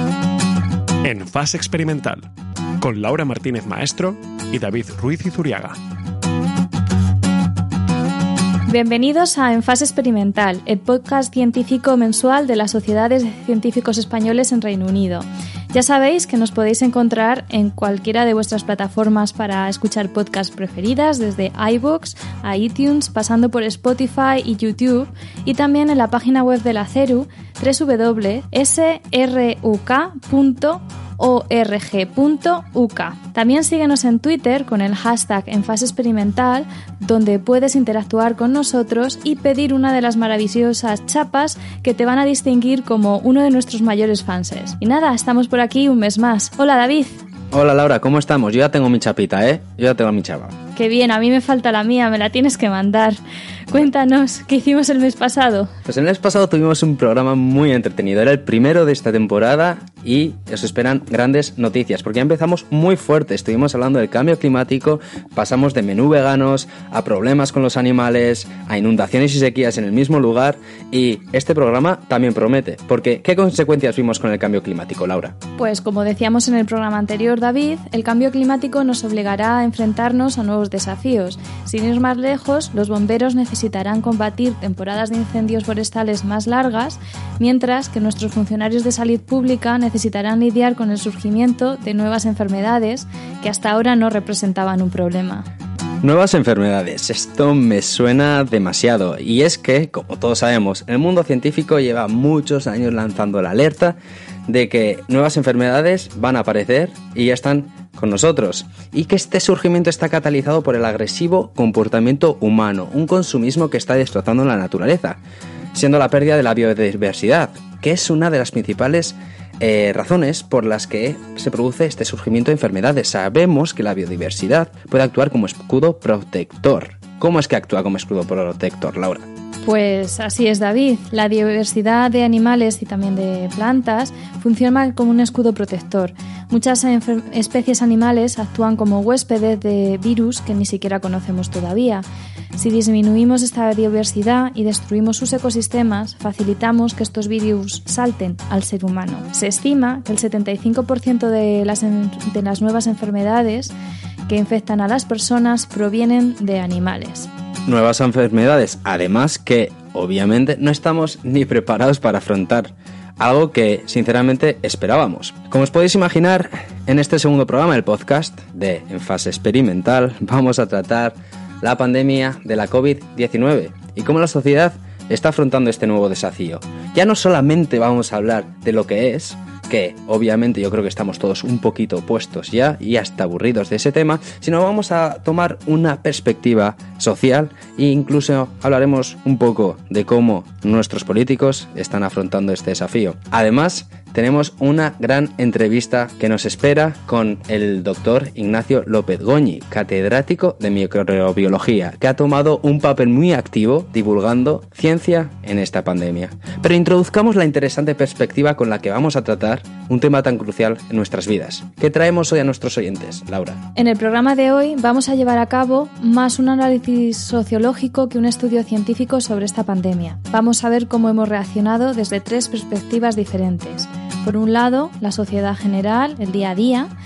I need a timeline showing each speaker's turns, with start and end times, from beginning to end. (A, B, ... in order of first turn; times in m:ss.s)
0:01.0-0:02.3 A
0:02.8-0:05.8 A
0:08.7-0:47.2 B
0:47.5-0:50.6 C
0:50.8-0:53.2 B
0:53.7-0:55.7 B
0:55.9-1:15.4 C
1:15.6-1:35.5 B
1:36.0-1:44.0 C
1:44.5-1:55.2 C
1:55.7-2:09.3 C
2:09.6-2:22.0 B
2:22.6-2:33.7 B
2:34.3-2:37.3 B
2:37.7-3:33.6 C
3:33.8-3:46.9 B